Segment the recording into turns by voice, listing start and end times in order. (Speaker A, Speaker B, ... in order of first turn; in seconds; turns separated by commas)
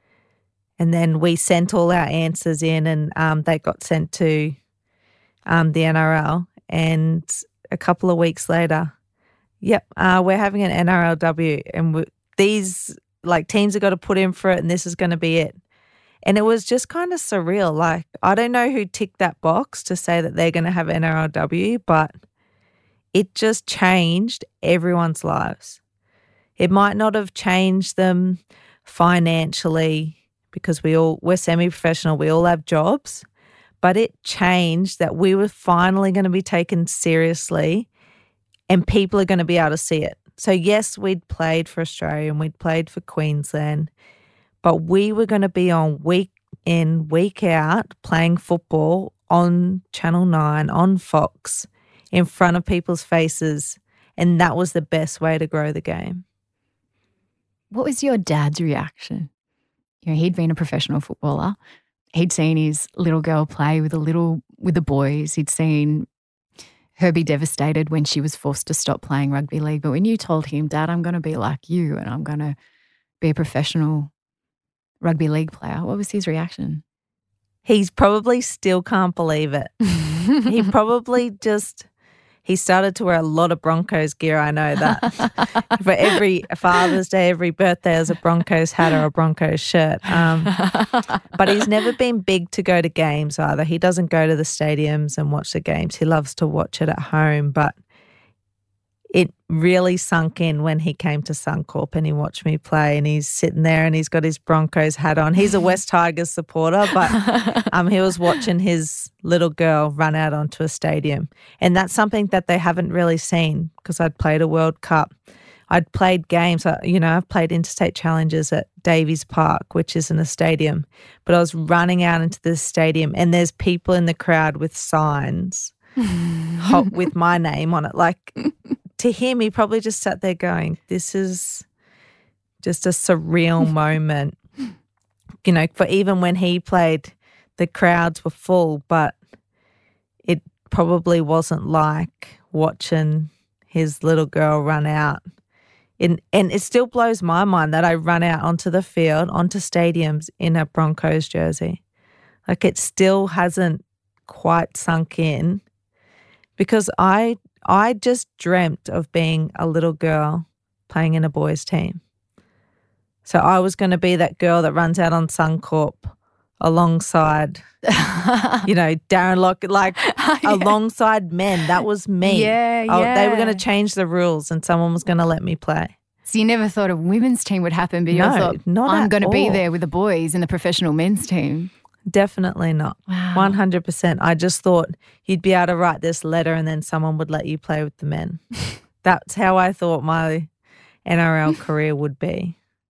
Speaker A: 0.8-4.6, Speaker A: 5.5-8.9, Speaker A: 9.6-15.6, Speaker A: 16.2-22.1, Speaker A: 23.1-25.8, Speaker A: 26.6-33.2, Speaker A: 33.8-37.9, Speaker A: 38.7-43.9, Speaker A: 44.6-56.2, Speaker B: 57.7-59.3, Speaker B: 60.0-61.6, Speaker B: 62.1-66.1, Speaker B: 67.0-72.5, Speaker B: 73.2-74.1, Speaker B: 75.0-76.8, Speaker A: 77.6-79.7, Speaker A: 80.4-81.9, Speaker A: 82.4-90.6, Speaker B: 90.5-91.0, Speaker A: 91.3-97.8, Speaker A: 99.1-115.1, Speaker B: 107.1-107.7, Speaker A: 115.7-125.7, Speaker B: 126.1-126.6, Speaker A: 126.6-128.4, Speaker A: 129.0-131.7, Speaker A: 132.6-134.4, Speaker A: 135.4-139.2, Speaker A: 140.2-145.2, Speaker A: 146.0-151.8, Speaker A: 152.4-155.6, Speaker A: 156.6-162.0, Speaker A: 163.2-167.6, Speaker B: 167.8-168.7, Speaker A: 168.7-175.9, Speaker B: 170.0-170.7, Speaker B: 172.2-173.6, Speaker B: 176.2-181.7, Speaker A: 178.1-179.6, Speaker A: 182.1-188.4, Speaker B: 183.1-183.6, Speaker A: 189.0-190.5, Speaker A: 191.1-192.5